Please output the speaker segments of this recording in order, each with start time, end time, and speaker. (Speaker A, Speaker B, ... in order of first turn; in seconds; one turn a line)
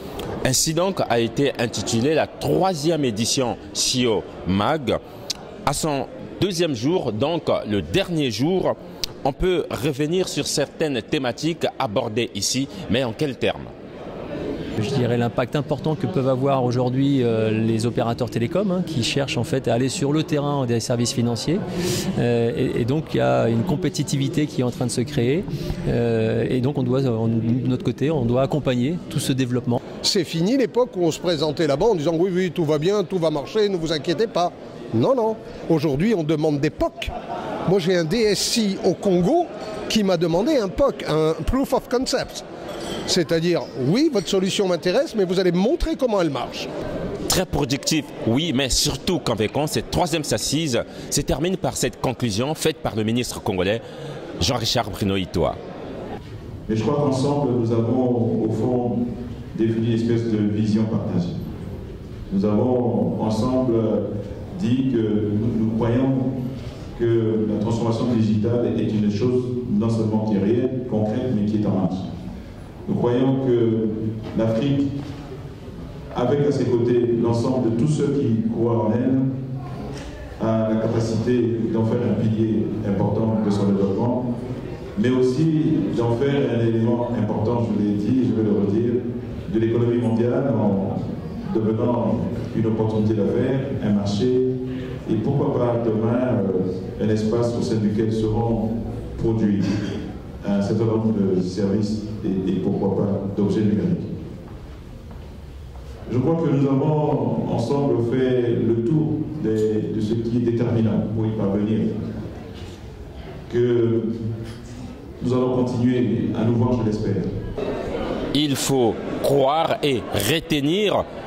Speaker A: 0.4-5.0
Speaker A: 5.7-13.7
Speaker B: 14.8-21.6
Speaker B: 22.2-29.8
Speaker C: 30.0-37.1
Speaker C: 37.7-42.4
Speaker C: 43.1-46.7
Speaker A: 47.3-53.8
Speaker A: 54.4-55.6
Speaker D: 56.7-59.0
Speaker D: 59.5-61.4
Speaker D: 62.3-66.3
Speaker D: 67.0-72.1
Speaker D: 72.8-74.9
Speaker D: 76.1-79.3
Speaker D: 80.4-84.3
Speaker D: 85.0-94.5
Speaker D: 95.1-99.7
Speaker D: 100.4-104.1
Speaker D: 106.1-111.9
Speaker D: 113.5-114.1
Speaker D: 115.2-117.3
Speaker A: 118.3-121.0